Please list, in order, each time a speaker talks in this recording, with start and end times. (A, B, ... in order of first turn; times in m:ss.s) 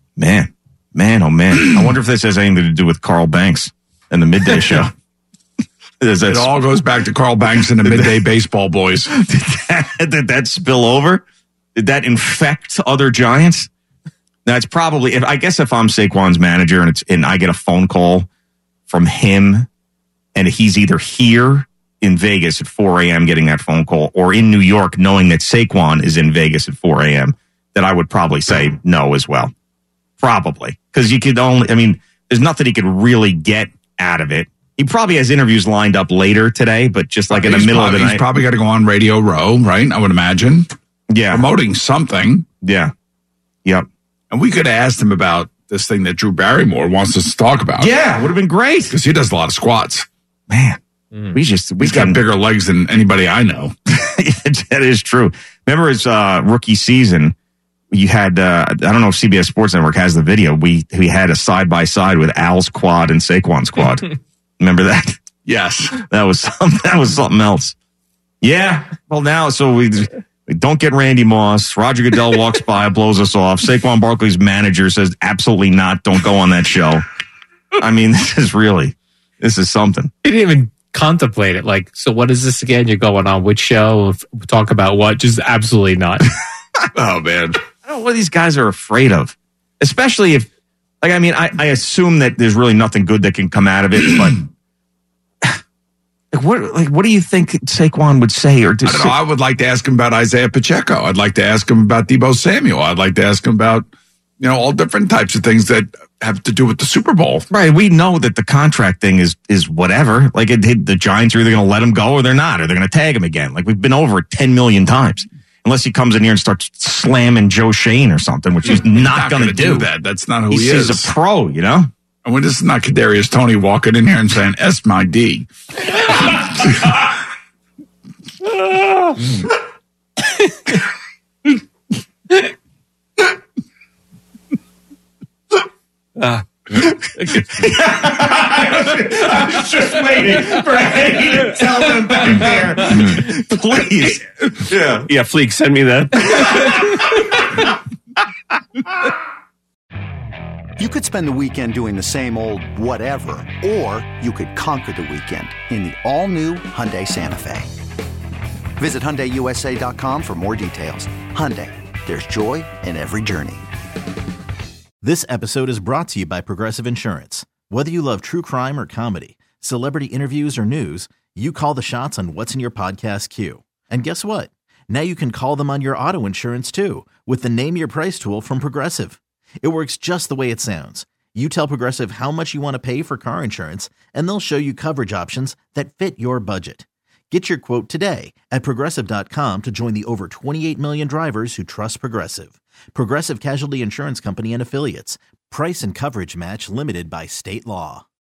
0:00.2-0:04.9 A
0:06.0-0:06.5 A
0:06.3-0:09.1 B
0:07.8-0:08.2 A
0:09.1-0:11.2 A
0:11.8-0:13.7 A
0:14.5-0:18.3 A
0:18.9-0:19.7 A
0:20.4-0:29.5 A
0:30.2-0:38.2 A
0:37.3-0:40.7 B
0:41.1-0:41.5 A
0:41.3-0:42.5 B
0:42.6-0:42.9 A
0:44.3-0:48.0 B
0:47.8-0:49.0 A
0:48.9-0:50.1 B
0:50.5-0:52.2 A
0:51.8-0:53.7 B
0:53.9-0:57.4 A
0:57.9-1:05.2 A
1:05.5-1:06.0 B
1:06.0-1:07.8 A
1:08.4-1:17.0 A
1:17.8-1:20.1 A
1:20.2-1:26.2 C
1:27.0-1:27.6 B
1:27.8-1:30.5 A
1:31.0-1:34.5 A
1:36.3-1:39.2 A
1:38.8-1:43.9 B
1:44.4-1:47.4 B
1:47.5-1:59.9 A
1:58.6-2:01.1 B
2:00.5-2:01.9 A
2:02.2-2:05.5 B
2:06.3-2:06.9 B
2:16.7-2:25.1 A
2:25.0-2:27.1 D
2:26.2-2:26.8 A
2:30.8-2:37.7 E
2:38.8-2:43.7 E
2:45.0-3:18.0 F